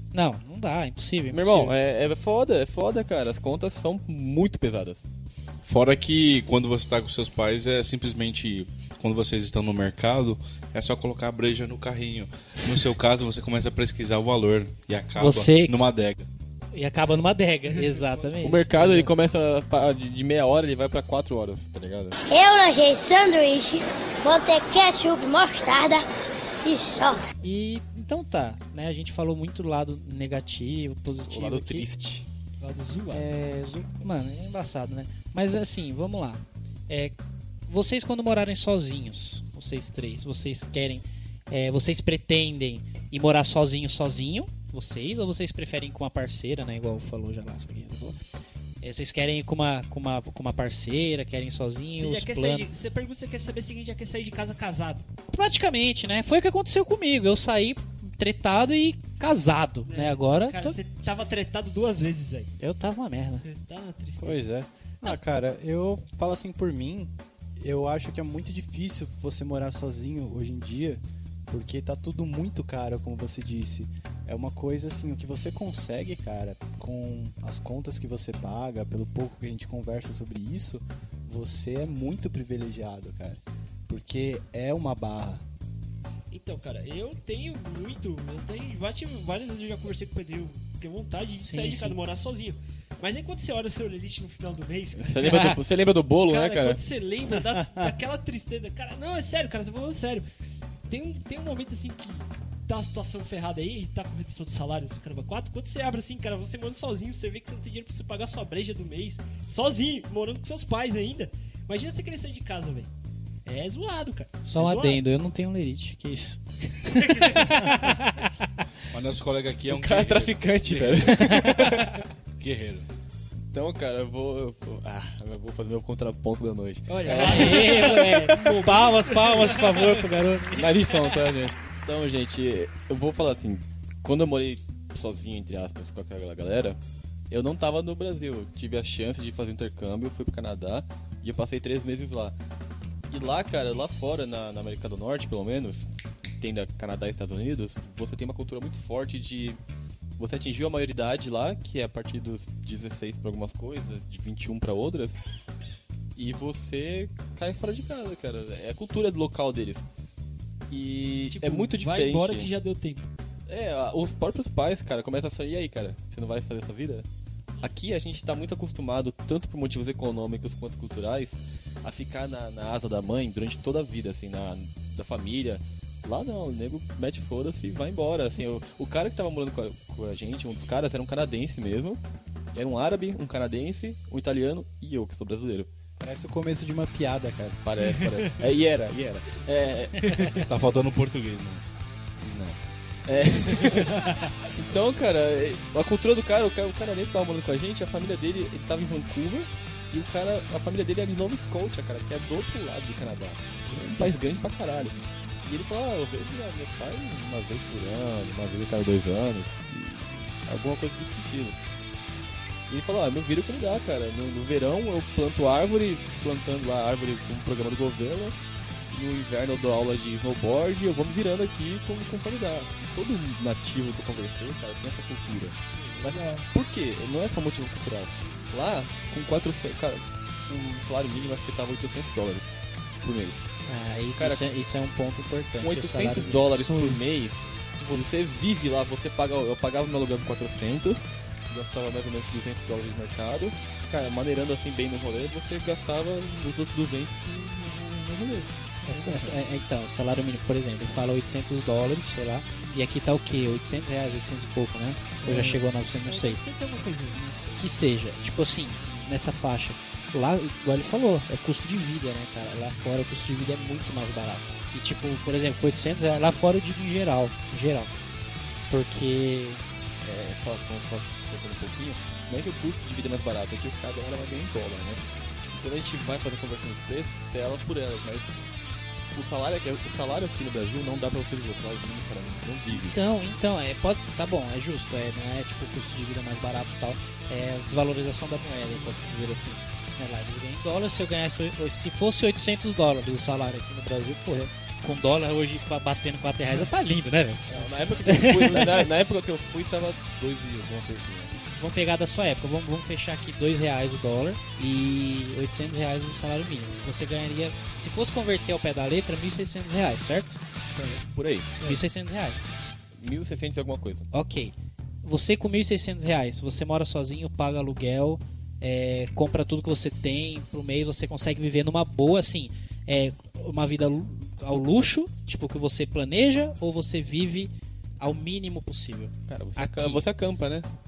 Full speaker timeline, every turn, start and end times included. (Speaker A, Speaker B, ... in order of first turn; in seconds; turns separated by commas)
Speaker A: 0.1-1.7, Speaker B: 1.3-5.0, Speaker C: 5.6-16.3, Speaker A: 15.2-15.7, Speaker A: 16.7-19.1, Speaker D: 17.7-18.8, Speaker B: 18.4-22.1, Speaker E: 22.2-26.1, Speaker E: 26.6-27.2, Speaker A: 27.4-31.9, Speaker B: 31.3-32.3, Speaker D: 32.6-33.3, Speaker A: 33.1-37.1, Speaker A: 37.7-48.2, Speaker A: 48.8-52.7, Speaker D: 52.0-55.0, Speaker A: 55.3-60.8, Speaker D: 59.9-62.5, Speaker A: 62.6-63.5, Speaker D: 63.4-64.4, Speaker F: 64.2-85.4, Speaker D: 86.3-95.5, Speaker A: 91.4-92.0, Speaker B: 95.0-96.8, Speaker A: 95.2-95.6, Speaker D: 96.2-100.2, Speaker D: 100.9-112.9, Speaker D: 113.4-115.0, Speaker A: 114.4-118.3, Speaker D: 117.0-117.8, Speaker C: 118.9-121.1, Speaker B: 119.7-121.8, Speaker A: 121.1-121.7, Speaker C: 122.4-122.8, Speaker B: 123.5-128.4, Speaker D: 126.9-130.1, Speaker A: 127.1-130.7, Speaker B: 130.5-136.8, Speaker D: 130.9-131.2, Speaker B: 137.3-142.3, Speaker B: 143.1-145.9, Speaker B: 146.4-149.6, Speaker B: 150.2-155.2, Speaker B: 156.2-159.8, Speaker B: 160.7-162.5, Speaker D: 161.3-163.1, Speaker B: 163.5-167.1, Speaker B: 167.6-182.0, Speaker B: 182.5-185.7, Speaker F: 186.0-187.6, Speaker B: 187.6-190.4, Speaker D: 187.8-188.4, Speaker D: 190.0-190.3, Speaker C: 190.3-191.7, Speaker B: 192.2-211.6, Speaker D: 193.6-194.2, Speaker D: 203.6-204.2, Speaker B: 212.7-218.3, Speaker B: 218.9-233.5, Speaker D: 225.8-226.5, Speaker A: 233.7-237.0, Speaker B: 234.2-234.5, Speaker B: 235.6-248.5, Speaker D: 248.8-249.4, Speaker A: 248.8-256.4, Speaker D: 255.2-257.6, Speaker A: 257.5-267.9, Speaker A: 268.7-269.6, Speaker B: 270.0-275.0, Speaker B: 275.5-278.4, Speaker B: 279.1-283.0, Speaker A: 282.7-298.9, Speaker B: 297.5-301.3, Speaker A: 301.3-310.4, Speaker D: 310.7-311.0, Speaker B: 311.0-311.5, Speaker A: 311.6-312.5, Speaker B: 313.0-314.1, Speaker A: 314.1-330.0, Speaker B: 329.3-330.7